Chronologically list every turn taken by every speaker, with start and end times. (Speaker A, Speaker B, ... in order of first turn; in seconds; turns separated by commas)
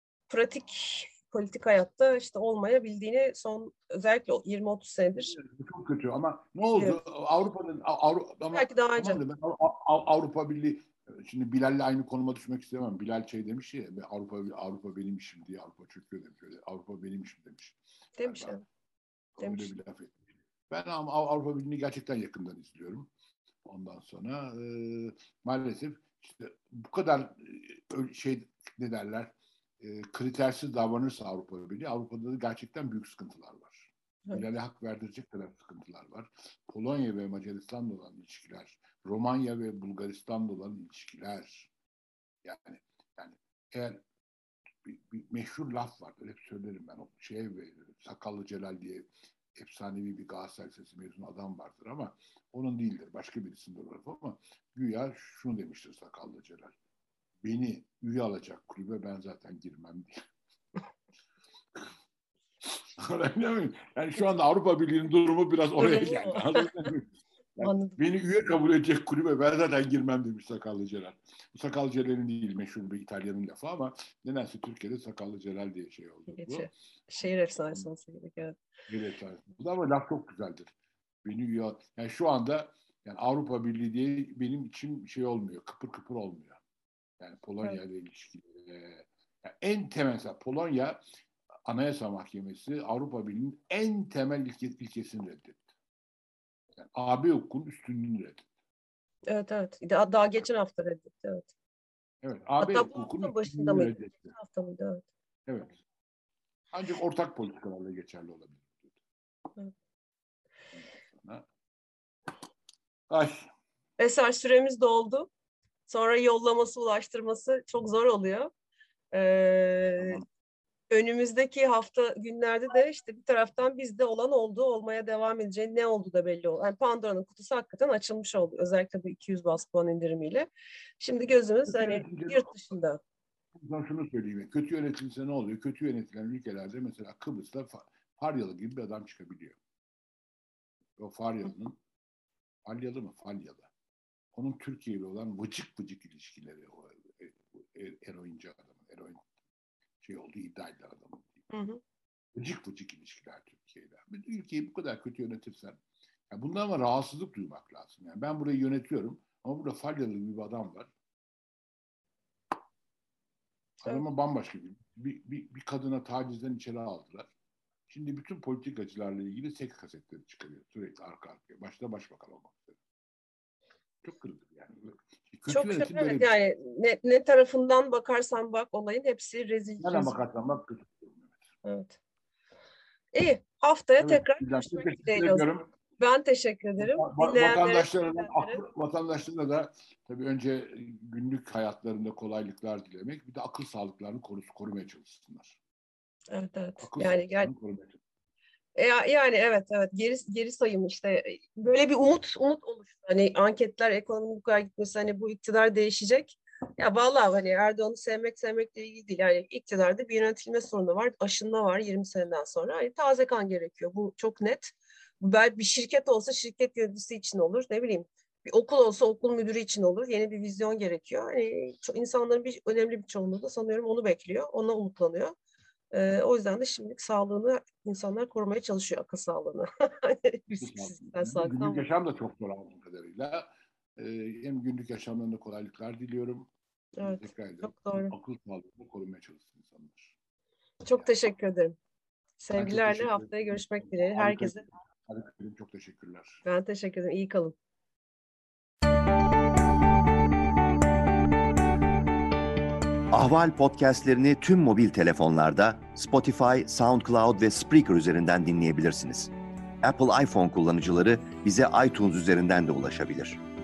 Speaker A: 0.3-5.4, Speaker B: 5.3-18.6, Speaker A: 8.5-9.2, Speaker A: 18.2-18.6, Speaker B: 19.4-20.1, Speaker A: 19.4-19.7, Speaker B: 20.7-23.1, Speaker B: 23.6-41.7, Speaker B: 42.4-44.0, Speaker B: 44.8-56.8, Speaker B: 57.4-60.2, Speaker B: 62.6-76.7, Speaker A: 65.8-66.7, Speaker A: 67.6-68.0, Speaker A: 76.3-78.6, Speaker B: 78.9-86.6, Speaker B: 87.2-91.0, Speaker B: 91.7-95.7, Speaker B: 96.8-98.5, Speaker A: 99.3-101.5, Speaker B: 102.2-104.3, Speaker A: 102.6-105.1, Speaker B: 105.5-105.8, Speaker B: 106.7-109.0, Speaker B: 110.8-111.5, Speaker B: 113.1-113.5, Speaker A: 114.0-115.3, Speaker A: 115.9-118.5, Speaker A: 119.1-120.2, Speaker B: 120.0-120.2, Speaker A: 120.9-130.5, Speaker A: 131.0-133.0, Speaker B: 131.7-132.5, Speaker B: 133.6-139.6, Speaker B: 141.0-141.8, Speaker B: 142.7-143.7, Speaker B: 144.3-149.2, Speaker B: 150.0-151.4, Speaker A: 151.5-151.8, Speaker B: 152.3-155.8, Speaker B: 156.3-160.9, Speaker B: 163.8-167.3, Speaker B: 167.9-172.8, Speaker B: 174.0-176.3, Speaker A: 175.5-180.1, Speaker B: 179.8-181.4, Speaker A: 181.6-182.0, Speaker A: 183.1-185.5, Speaker B: 184.0-185.7, Speaker A: 186.0-188.6, Speaker B: 186.8-195.6, Speaker A: 196.3-197.5, Speaker B: 196.8-198.0, Speaker A: 198.8-225.3, Speaker A: 225.9-231.8, Speaker B: 230.6-236.5, Speaker A: 237.0-238.1, Speaker B: 237.0-240.1, Speaker A: 240.8-241.8, Speaker A: 242.4-244.6, Speaker B: 242.5-246.4, Speaker A: 246.4-247.6, Speaker C: 253.1-259.3, Speaker C: 259.8-263.4